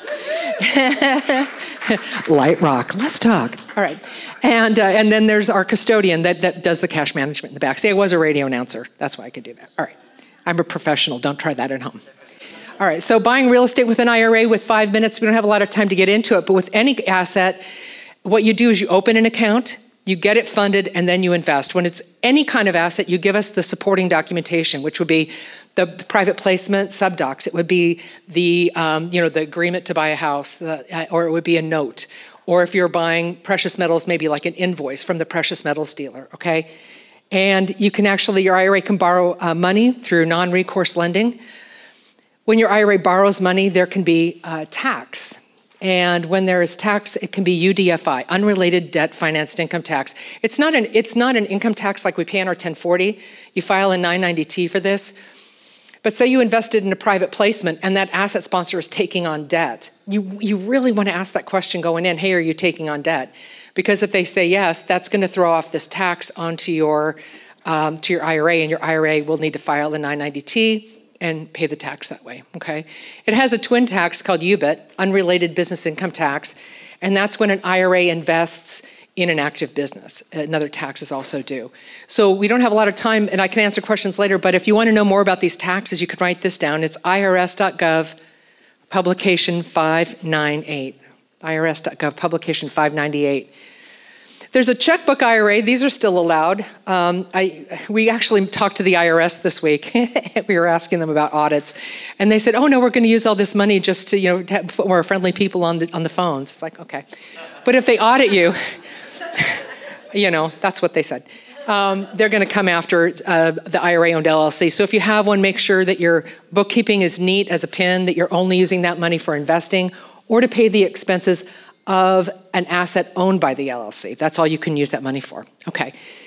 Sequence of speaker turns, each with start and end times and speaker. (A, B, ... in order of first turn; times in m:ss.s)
0:00.3-0:10.0 A
0:10.5-0:12.0 A
0:12.8-0:17.6 A
0:18.2-0:36.7 A
0:37.3-0:41.4 A
0:42.4-0:55.2 A
0:56.0-1:28.2 A
1:28.9-1:33.5 A
1:34.5-1:47.0 A
1:47.6-1:48.6 A
1:49.3-2:05.9 A